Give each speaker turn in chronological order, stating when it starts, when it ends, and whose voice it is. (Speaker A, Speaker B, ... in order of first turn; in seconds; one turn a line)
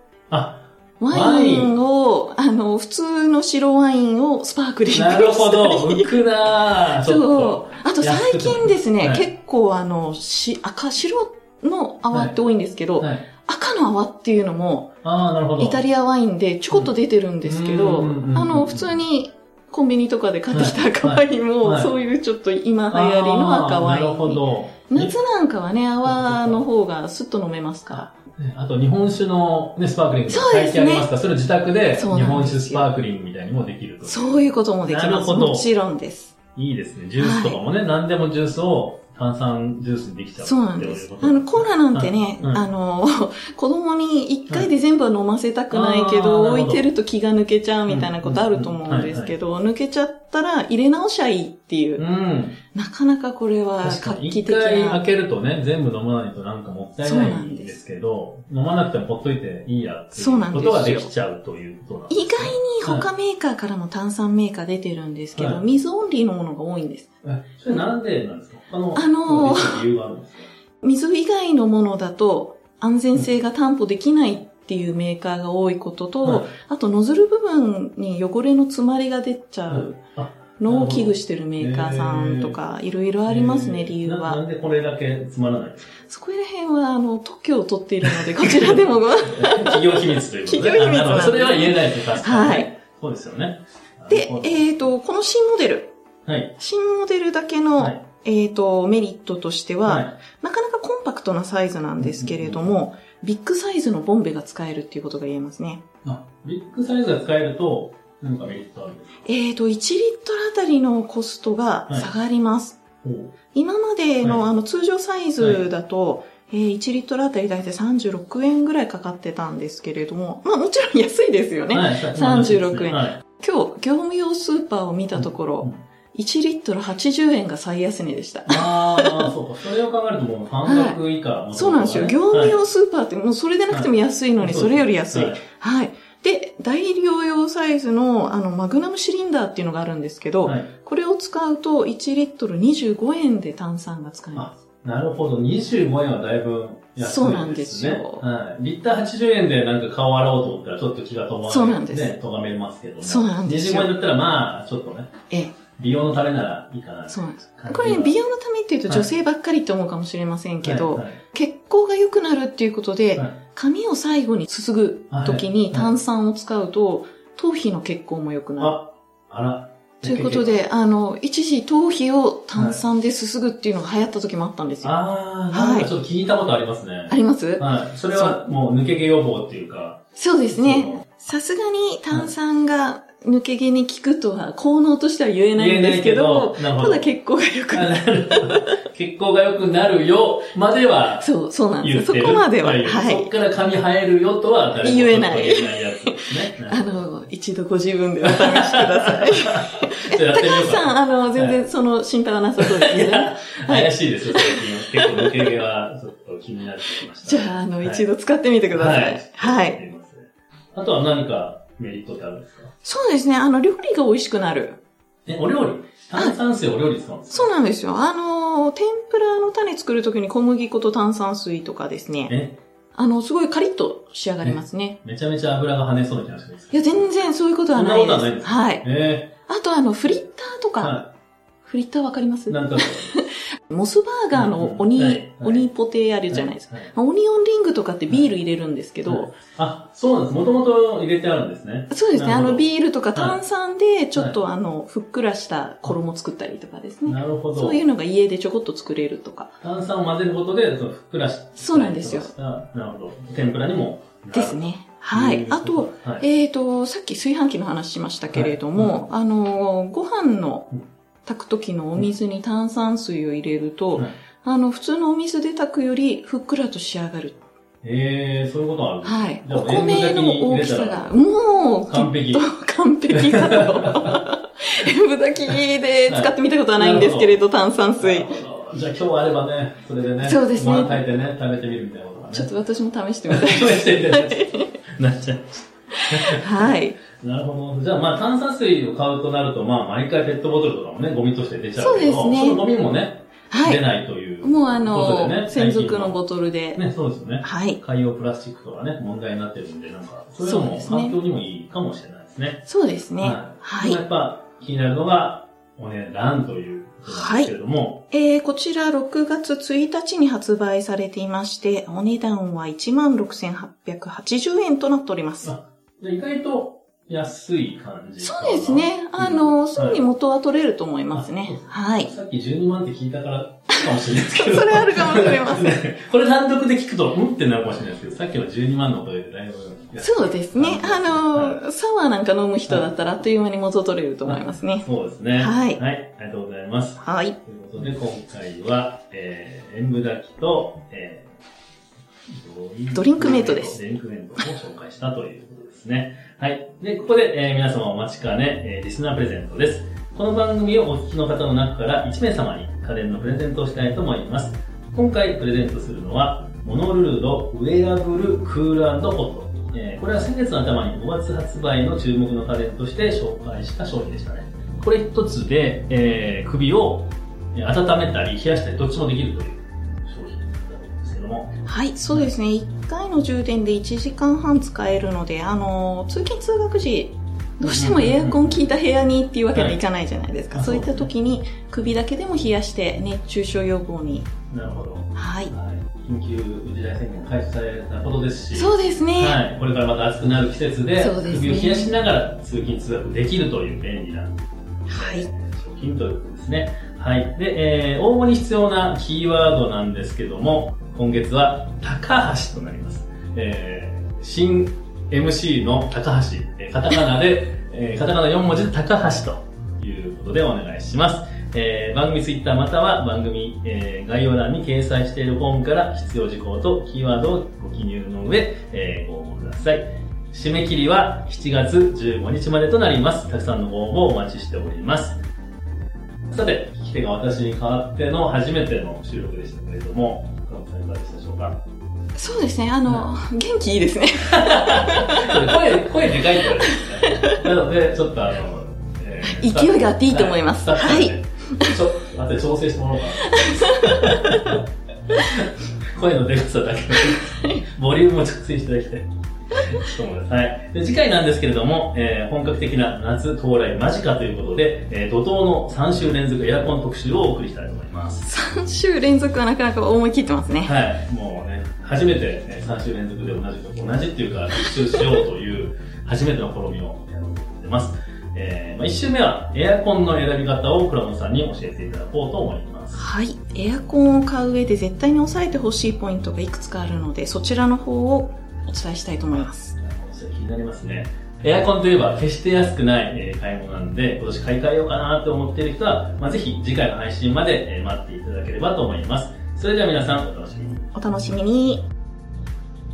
Speaker A: 0.3-1.8
Speaker B: 1.0-6.2
Speaker A: 4.9-9.3
Speaker B: 7.0-14.9
Speaker A: 13.0-13.3
Speaker A: 15.0-15.8
Speaker B: 15.6-28.1
Speaker A: 17.4-19.0
Speaker A: 20.5-21.9
Speaker A: 22.9-25.2
Speaker A: 26.1-26.7
Speaker A: 27.9-35.7
Speaker B: 30.3-31.1
Speaker B: 31.9-32.9
Speaker B: 34.0-36.4
Speaker A: 36.6-42.6
Speaker B: 37.2-37.6
Speaker B: 40.4-52.0
Speaker A: 45.7-46.9
Speaker A: 47.9-49.4
Speaker A: 52.0-52.6
Speaker B: 52.7-55.0
Speaker A: 53.8-63.1
Speaker B: 57.0-57.8
Speaker B: 60.2-61.1
Speaker B: 62.1-67.1
Speaker A: 65.3-65.6
Speaker A: 67.2-70.5
Speaker B: 68.9-69.9
Speaker B: 70.8-80.0
Speaker A: 79.7-82.6
Speaker B: 80.6-84.4
Speaker A: 83.3-86.0
Speaker B: 86.1-92.7
Speaker A: 88.4-94.9
Speaker B: 94.1-95.9
Speaker A: 96.3-96.5
Speaker B: 96.6-105.8
Speaker A: 99.9-100.1
Speaker A: 102.0-102.8
Speaker A: 106.0-109.2
Speaker B: 109.2-112.8
Speaker A: 113.0-113.3
Speaker B: 113.5-129.3
Speaker A: 115.4-115.7
Speaker A: 121.7-123.2
Speaker A: 125.2-125.8
Speaker A: 128.5-132.6
Speaker B: 130.7-131.0
Speaker B: 131.5-144.6
Speaker A: 133.7-135.4
Speaker A: 140.4-140.7
Speaker A: 144.3-155.1
Speaker B: 147.0-148.2
Speaker B: 151.5-152.1
Speaker B: 153.0-154.0
Speaker B: 155.3-155.6
Speaker A: 155.8-158.2
Speaker B: 157.1-168.8
Speaker A: 160.6-161.2
Speaker A: 165.1-165.9
Speaker A: 168.6-170.6
Speaker B: 170.0-174.9
Speaker A: 172.6-172.8
Speaker A: 174.8-181.1
Speaker B: 175.5-175.9
Speaker B: 177.1-178.4
Speaker B: 180.2-188.8
Speaker A: 185.6-187.1
Speaker A: 187.7-197.1
Speaker B: 191.2-193.3
Speaker B: 194.8-205.5
Speaker A: 198.2-201.6
Speaker A: 202.6-208.1
Speaker B: 207.2-209.8
Speaker A: 208.7-212.7
Speaker B: 212.8-214.8
Speaker A: 215.3-217.5
Speaker B: 217.3-222.3
Speaker A: 222.3-222.6
Speaker B: 222.9-225.0
Speaker A: 224.4-227.1
Speaker B: 226.7-228.8
Speaker A: 227.8-229.3
Speaker B: 229.5-231.0
Speaker A: 230.8-231.1
Speaker B: 231.6-239.3
Speaker A: 232.5-233.1
Speaker A: 234.3-235.7
Speaker A: 236.3-236.9
Speaker A: 239.1-243.4
Speaker B: 241.9-249.5
Speaker A: 247.1-247.8
Speaker A: 249.6-256.2
Speaker B: 251.6-252.3
Speaker B: 254.3-260.7
Speaker A: 258.3-259.0
Speaker B: 261.3-267.4
Speaker A: 267.8-271.1
Speaker B: 269.0-278.3
Speaker A: 271.9-272.5
Speaker A: 273.1-274.2
Speaker A: 275.5-277.4
Speaker A: 278.0-282.5
Speaker B: 280.2-281.0
Speaker B: 282.3-284.8
Speaker A: 283.3-296.2
Speaker B: 285.9-287.0
Speaker B: 291.8-292.6
Speaker B: 293.5-293.8
Speaker B: 294.4-296.8
Speaker A: 296.8-302.7
Speaker B: 297.4-297.8
Speaker B: 300.4-301.2
Speaker B: 302.7-304.0
Speaker A: 303.2-308.1
Speaker B: 307.1-307.5
Speaker B: 308.1-315.5
Speaker A: 315.4-320.0
Speaker B: 318.2-322.1
Speaker A: 321.1-331.6
Speaker B: 323.7-325.8
Speaker B: 330.0-334.9
Speaker A: 334.3-341.4
Speaker B: 335.4-335.8
Speaker B: 337.0-337.4
Speaker A: 342.3-371.5
Speaker B: 342.9-343.8
Speaker B: 371.6-384.3
Speaker A: 377.6-378.6
Speaker A: 379.5-379.8
Speaker A: 380.5-381.1
Speaker A: 384.5-425.2
Speaker B: 385.1-385.5
Speaker B: 388.5-389.4
Speaker B: 391.0-391.9
Speaker B: 394.9-395.3
Speaker A: 426.3-431.6
Speaker B: 432.2-435.6
Speaker A: 434.2-444.6
Speaker B: 436.4-437.4
Speaker B: 439.2-441.7
Speaker B: 443.2-444.6
Speaker A: 445.2-458.3
Speaker B: 447.0-447.6
Speaker B: 458.3-460.8
Speaker A: 460.6-473.0
Speaker B: 464.6-465.1
Speaker B: 472.9-479.7
Speaker A: 479.7-490.9
Speaker B: 490.9-491.9